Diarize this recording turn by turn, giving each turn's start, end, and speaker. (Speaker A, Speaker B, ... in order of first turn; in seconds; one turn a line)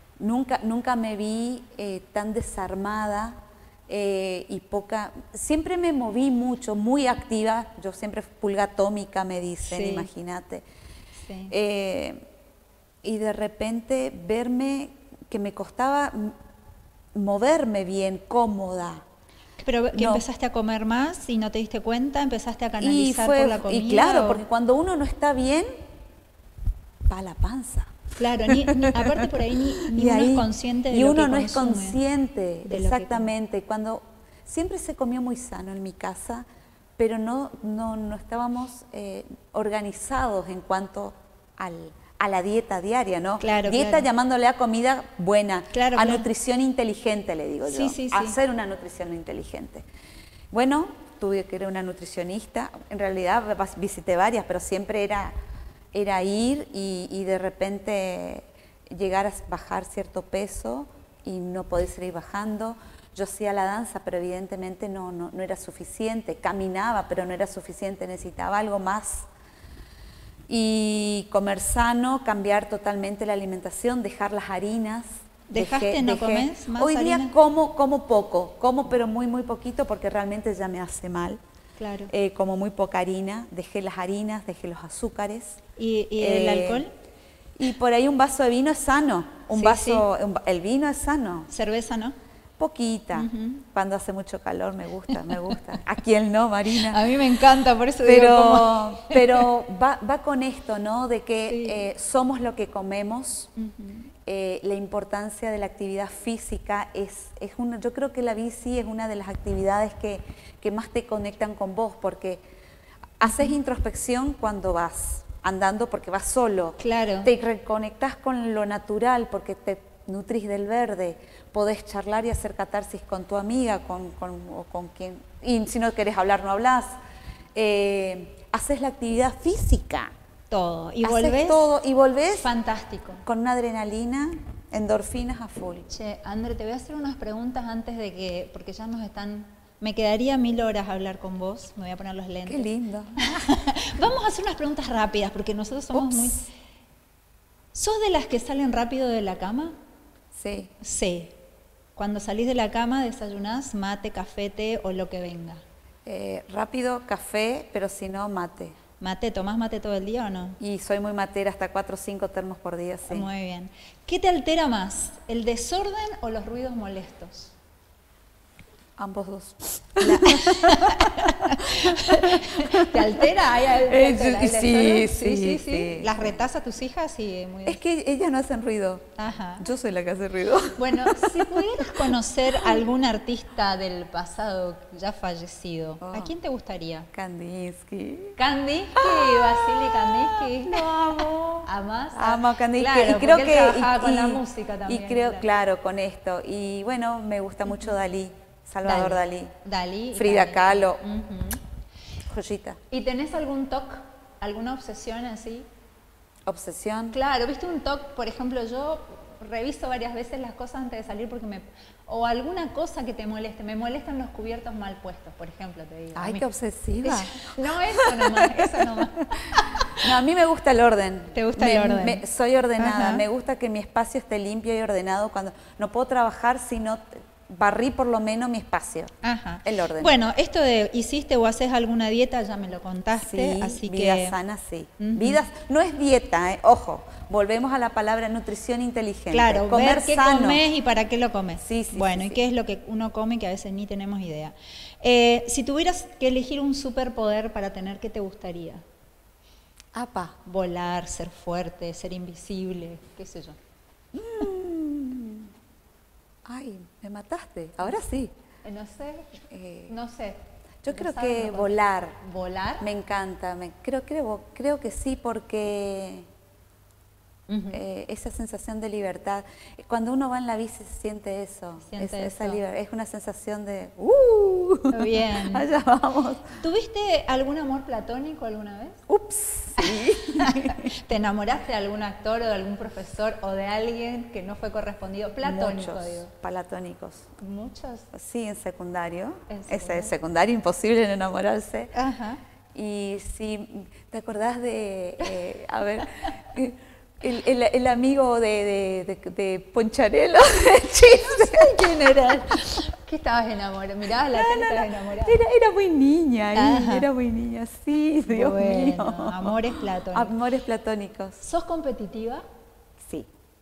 Speaker A: 0.2-10.6
Speaker B: 9.6-10.1
Speaker B: 11.2-11.5
Speaker A: 11.5-12.2
Speaker A: 13.0-16.4
Speaker A: 17.1-19.0
Speaker B: 19.6-24.4
Speaker A: 19.9-20.2
Speaker A: 22.8-25.7
Speaker A: 27.1-36.5
Speaker B: 28.2-32.0
Speaker B: 32.6-33.3
Speaker A: 37.0-49.9
Speaker B: 43.4-44.1
Speaker B: 45.7-46.2
Speaker B: 47.6-48.4
Speaker A: 50.5-55.3
Speaker A: 55.9-69.3
Speaker A: 70.5-81.4
Speaker B: 75.5-77.3
Speaker B: 81.8-82.1
Speaker A: 82.1-85.6
Speaker B: 85.8-86.9
Speaker A: 86.2-86.8
Speaker A: 87.6-91.5
Speaker B: 89.5-90.0
Speaker B: 91.5-92.2
Speaker A: 92.6-97.1
Speaker B: 93.1-93.6
Speaker B: 95.1-95.6
Speaker B: 96.7-99.4
Speaker A: 98.0-103.5
Speaker B: 101.5-101.9
Speaker B: 103.6-104.1
Speaker A: 104.2-112.4
Speaker A: 113.2-127.0
Speaker B: 116.8-117.3
Speaker A: 127.5-130.1
Speaker B: 130.5-131.7
Speaker A: 131.0-132.5
Speaker B: 132.4-133.2
Speaker A: 133.2-135.9
Speaker B: 135.9-146.4
Speaker A: 142.4-143.3
Speaker A: 145.9-146.4
Speaker B: 147.7-149.7
Speaker A: 150.3-150.7
Speaker B: 150.8-151.3
Speaker B: 151.9-155.6
Speaker A: 156.0-158.8
Speaker B: 159.0-160.6
Speaker A: 160.6-163.3
Speaker B: 163.1-167.5
Speaker A: 169.0-176.4
Speaker B: 170.0-177.8
Speaker A: 177.7-182.1
Speaker B: 179.2-179.7
Speaker B: 180.8-187.1
Speaker A: 186.0-186.3
Speaker A: 187.1-188.4
Speaker B: 188.4-190.9
Speaker A: 188.9-199.5
Speaker B: 191.7-195.4
Speaker B: 198.8-201.6
Speaker A: 200.1-201.0
Speaker A: 202.3-202.8
Speaker B: 202.9-205.7
Speaker A: 206.4-207.2
Speaker B: 207.1-216.4
Speaker A: 216.1-218.9
Speaker B: 217.0-220.0
Speaker A: 219.9-230.1
Speaker B: 221.3-222.2
Speaker B: 222.8-223.2
Speaker B: 229.2-234.3
Speaker A: 233.2-240.7
Speaker B: 235.0-235.4
Speaker B: 239.3-248.8
Speaker A: 241.6-242.4
Speaker A: 249.9-250.3
Speaker B: 250.4-253.6
Speaker A: 254.1-255.5
Speaker A: 256.4-258.3
Speaker B: 258.6-262.8
Speaker A: 259.5-259.9
Speaker A: 260.8-262.2
Speaker A: 262.8-266.3
Speaker B: 267.5-267.8
Speaker A: 267.7-276.5
Speaker B: 271.8-272.6
Speaker B: 274.9-275.6
Speaker B: 276.6-279.0
Speaker A: 279.1-280.9
Speaker B: 279.8-286.3
Speaker A: 285.4-287.3
Speaker B: 287.4-288.1
Speaker A: 288.1-291.9
Speaker B: 289.5-290.1
Speaker B: 291.9-292.4
Speaker A: 292.7-301.7
Speaker B: 301.2-305.4
Speaker A: 304.3-311.4
Speaker B: 306.5-307.1
Speaker B: 308.3-310.3
Speaker B: 311.4-312.4
Speaker A: 313.0-313.3